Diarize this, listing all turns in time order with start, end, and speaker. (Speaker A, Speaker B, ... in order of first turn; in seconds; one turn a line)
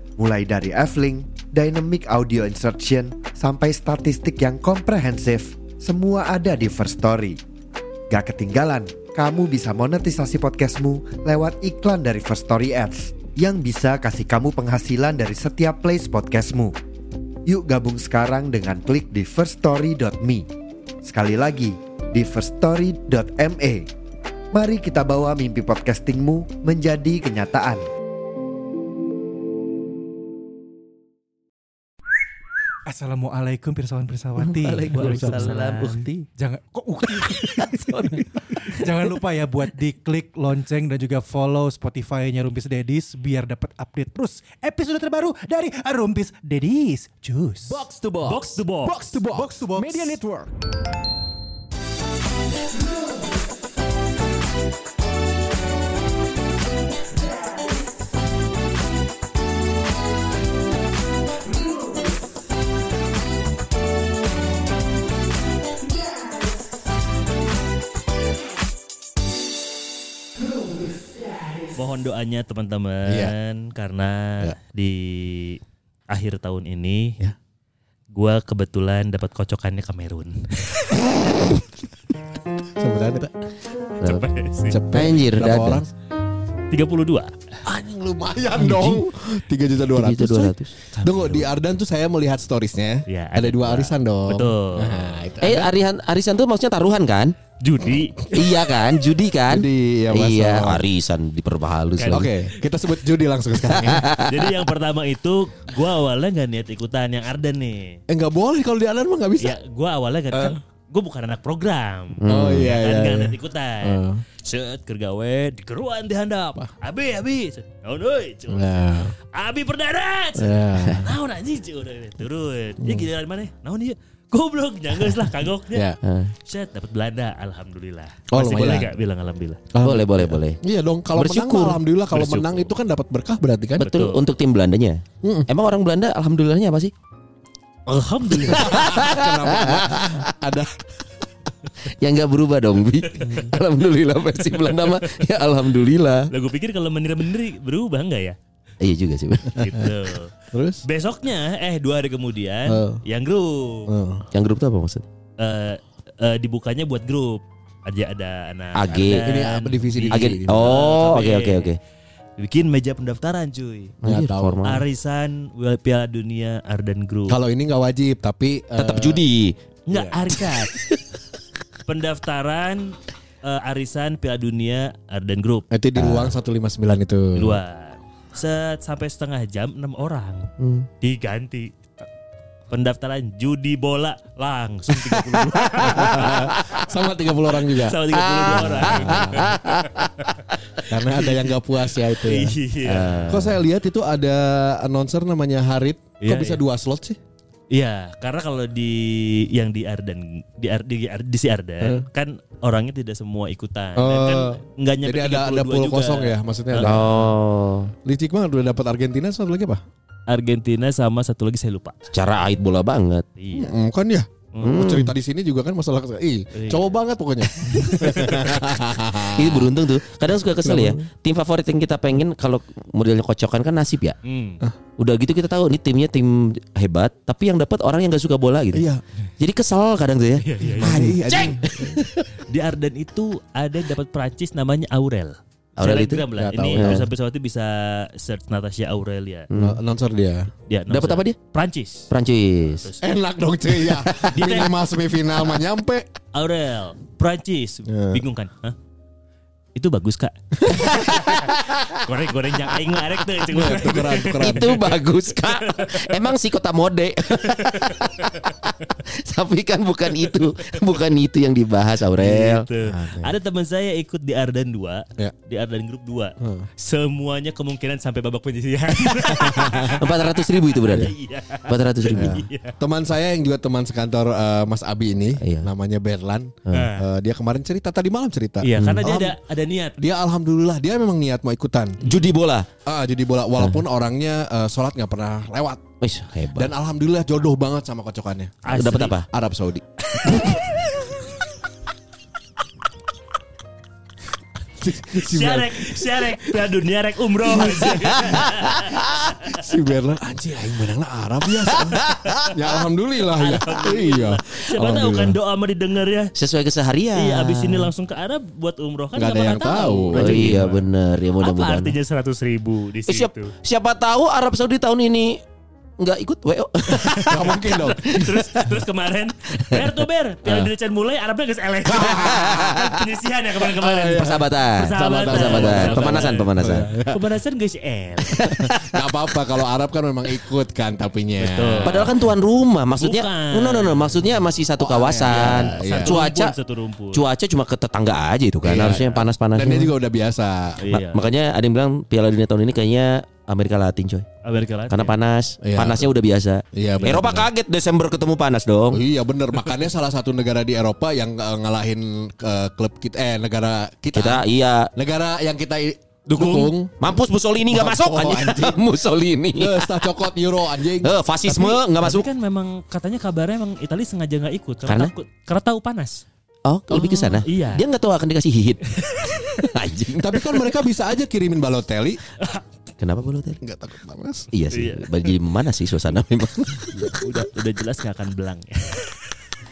Speaker A: 0.2-7.4
Speaker A: 8.1-16.8
Speaker A: 17.5-20.5
Speaker A: 21.0-23.9
Speaker A: 24.5-27.9
Speaker B: 32.9-50.2
Speaker C: 34.6-36.2
Speaker D: 34.7-35.9
Speaker D: 37.4-38.3
Speaker E: 47.8-48.4
Speaker C: 48.2-49.0
Speaker E: 49.1-50.5
Speaker C: 71.7-77.2
Speaker E: 73.1-73.3
Speaker C: 78.1-81.0
Speaker E: 82.8-83.3
Speaker C: 84.0-84.8
Speaker E: 84.7-85.9
Speaker D: 84.9-85.8
Speaker C: 86.7-87.3
Speaker E: 87.7-95.8
Speaker D: 88.6-89.0
Speaker D: 89.9-90.7
Speaker C: 90.9-91.5
Speaker C: 93.1-95.2
Speaker D: 95.4-97.3
Speaker C: 97.6-98.6
Speaker D: 98.3-102.3
Speaker E: 99.5-100.8
Speaker C: 102.0-102.3
Speaker E: 102.1-104.1
Speaker D: 103.8-104.5
Speaker C: 104.2-108.0
Speaker E: 108.1-109.6
Speaker C: 109.4-129.6
Speaker E: 110.3-110.6
Speaker D: 112.2-112.7
Speaker E: 112.3-114.2
Speaker E: 118.5-119.1
Speaker E: 120.4-121.1
Speaker E: 122.8-123.1
Speaker E: 125.7-126.0
Speaker D: 126.0-126.3
Speaker E: 128.3-128.9
Speaker E: 129.7-133.9
Speaker D: 129.8-130.6
Speaker D: 131.2-132.7
Speaker C: 133.8-134.2
Speaker D: 133.8-136.9
Speaker E: 135.2-135.5
Speaker C: 137.9-139.0
Speaker D: 138.4-140.3
Speaker E: 138.5-140.8
Speaker D: 142.0-146.3
Speaker C: 144.8-145.3
Speaker C: 146.3-148.4
Speaker D: 148.8-149.8
Speaker C: 149.5-150.3
Speaker E: 150.5-150.8
Speaker C: 150.8-153.9
Speaker E: 152.7-153.0
Speaker E: 153.9-154.3
Speaker D: 154.3-155.1
Speaker C: 155.4-161.8
Speaker D: 158.8-159.3
Speaker E: 159.2-160.8
Speaker D: 160.1-161.8
Speaker C: 162.4-164.0
Speaker E: 164.0-164.6
Speaker D: 164.0-164.8
Speaker C: 164.7-167.4
Speaker E: 167.3-169.2
Speaker D: 168.8-169.6
Speaker C: 169.9-170.7
Speaker E: 169.9-170.2
Speaker C: 171.9-175.7
Speaker E: 175.7-177.6
Speaker D: 176.0-176.3
Speaker C: 177.3-182.0
Speaker D: 180.6-180.9
Speaker C: 182.7-186.6
Speaker E: 185.0-189.6
Speaker D: 185.9-186.4
Speaker C: 187.6-191.6
Speaker D: 188.2-189.9
Speaker E: 190.9-192.6
Speaker C: 192.1-193.2
Speaker D: 192.8-193.6
Speaker E: 193.3-197.2
Speaker C: 196.2-196.6
Speaker C: 197.7-207.1
Speaker E: 201.8-202.1
Speaker E: 204.0-207.1
Speaker D: 206.8-207.9
Speaker E: 208.1-209.8
Speaker C: 210.3-212.0
Speaker D: 212.1-213.3
Speaker C: 213.4-213.7
Speaker E: 213.5-219.8
Speaker C: 214.5-214.8
Speaker D: 214.6-215.1
Speaker C: 216.5-216.9
Speaker C: 217.6-218.4
Speaker D: 219.3-224.2
Speaker E: 220.6-221.0
Speaker C: 224.2-224.6
Speaker D: 225.0-228.9
Speaker E: 228.7-229.0
Speaker D: 229.4-232.2
Speaker C: 230.4-231.0
Speaker E: 230.8-232.0
Speaker C: 232.5-239.5
Speaker D: 235.8-236.3
Speaker E: 236.3-237.1
Speaker D: 236.8-237.1
Speaker D: 239.5-239.8
Speaker E: 239.5-240.5
Speaker C: 240.7-242.1
Speaker D: 240.9-241.4
Speaker D: 242.1-242.9
Speaker C: 242.7-243.0
Speaker E: 243.0-246.1
Speaker C: 244.0-244.8
Speaker C: 246.3-248.8
Speaker E: 247.9-248.2
Speaker C: 249.8-256.2
Speaker E: 250.6-251.2
Speaker D: 250.9-251.8
Speaker E: 253.5-254.7
Speaker D: 254.2-258.3
Speaker C: 257.4-258.6
Speaker D: 258.9-262.6
Speaker C: 262.2-272.8
Speaker E: 262.8-263.3
Speaker E: 266.4-266.7
Speaker E: 269.0-270.0
Speaker D: 270.0-271.1
Speaker D: 271.7-272.4
Speaker E: 272.1-279.4
Speaker D: 275.4-275.7
Speaker D: 276.7-276.9
Speaker C: 276.7-277.1
Speaker C: 278.6-280.0
Speaker D: 278.8-279.1
Speaker E: 280.0-282.0
Speaker D: 282.0-282.7
Speaker E: 282.9-285.9
Speaker D: 286.0-286.7
Speaker E: 286.6-288.6
Speaker C: 288.6-289.1
Speaker D: 288.7-289.3
Speaker E: 289.3-291.3
Speaker D: 290.3-290.6
Speaker E: 294.8-296.6
Speaker C: 295.1-299.6
Speaker E: 297.4-305.4
Speaker D: 301.9-302.5
Speaker C: 303.3-306.3
Speaker D: 306.4-307.9
Speaker C: 307.2-310.9
Speaker E: 309.1-310.7
Speaker D: 310.1-311.9
Speaker C: 311.4-313.5
Speaker D: 313.1-315.4
Speaker D: 316.0-317.6
Speaker C: 316.9-328.5
Speaker E: 317.3-318.4
Speaker D: 319.6-319.9
Speaker E: 321.9-322.8
Speaker D: 322.1-323.0
Speaker E: 323.6-327.2
Speaker D: 324.0-326.9
Speaker D: 328.3-329.4
Speaker E: 328.5-332.1
Speaker C: 331.4-332.1
Speaker D: 331.9-336.6
Speaker C: 333.0-334.4
Speaker E: 334.8-336.2
Speaker C: 335.3-337.2
Speaker D: 337.1-339.9
Speaker E: 338.6-340.8
Speaker C: 340.8-341.2
Speaker D: 340.9-344.3
Speaker C: 344.4-345.1
Speaker D: 344.9-349.0
Speaker E: 345.6-346.1
Speaker E: 346.7-347.5
Speaker E: 348.9-357.0
Speaker D: 354.1-354.9
Speaker C: 356.4-356.7
Speaker D: 356.4-360.1
Speaker E: 357.7-358.9
Speaker E: 359.5-361.1
Speaker D: 361.0-362.3
Speaker C: 361.5-366.2
Speaker D: 364.9-365.1
Speaker D: 366.6-370.7
Speaker E: 366.9-367.4
Speaker C: 367.4-367.8
Speaker C: 369.1-369.4
Speaker E: 370.1-372.2
Speaker C: 372.4-372.6
Speaker D: 373.0-373.6
Speaker E: 373.6-374.5
Speaker D: 374.5-377.2
Speaker C: 374.7-375.3
Speaker C: 376.9-379.1